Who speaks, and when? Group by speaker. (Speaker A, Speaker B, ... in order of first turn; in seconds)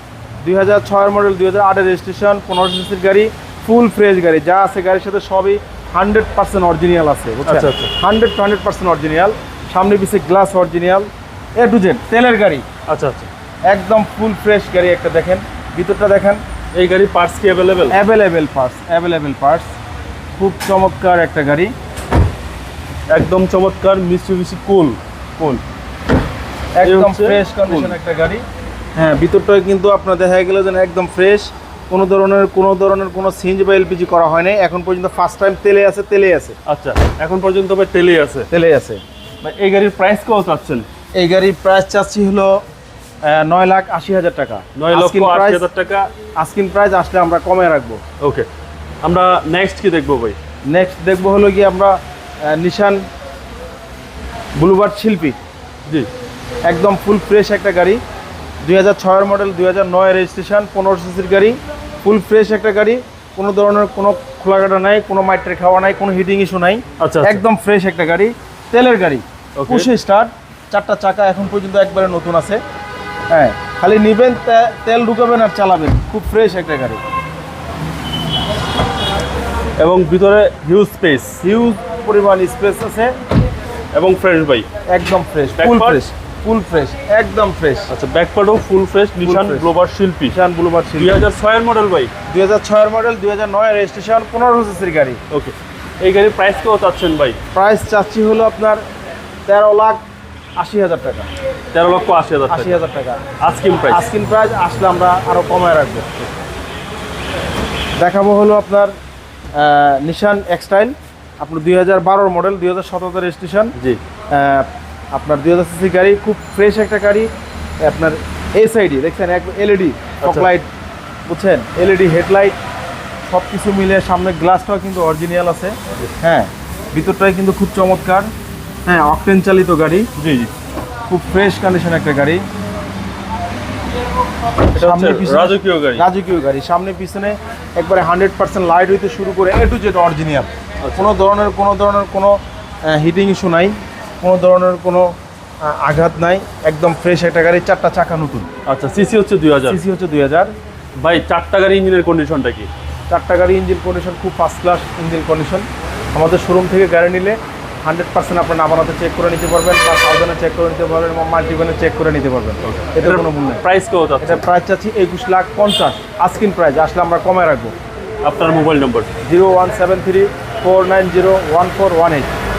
Speaker A: 0.4-12.7, 13.7-16.4, 17.9-19.7, 20.4-21.7, 26.8-28.4, 29.0-36.6, 38.5-39.0, 41.2-42.6, 43.2-45.7, 46.4-48.0, 50.7-53.1, 54.6-55.4, 56.6-58.0, 58.6-72.6, 73.3-77.0, 81.4-83.1, 84.9-87.9, 89.2-89.7, 90.3-91.2, 92.3-95.2, 97.5-98.8, 99.5-100.0, 100.6-101.3, 102.5-103.2, 103.9-106.3, 108.0-109.0, 109.5-113.8, 114.3-117.3, 117.8-120.7, 121.3-122.6, 123.3-128.3, 128.9-130.1, 131.1-132.4, 134.8-148.5, 149.7-150.5, 153.1-163.6, 164.2-167.7, 169.2-172.3
Speaker B: 7.5-7.9, 12.9-13.3, 16.7-18.0, 23.1-25.6, 26.8-28.0, 36.7-38.5, 39.4-40.9, 44.8-46.1, 48.2-48.5, 49.0-50.4, 67.0-67.4, 69.6-69.9, 79.8-81.4, 83.9-84.7, 85.6-86.0, 87.9-90.4, 91.0-92.1, 95.3-97.4, 101.7-102.8, 103.4-104.0, 113.8-114.0, 120.2-120.5, 130.2-130.5, 134.7-136.1, 140.8-141.1, 148.7-149.8, 151.0-152.7, 162.6-164.4, 168.2-169.1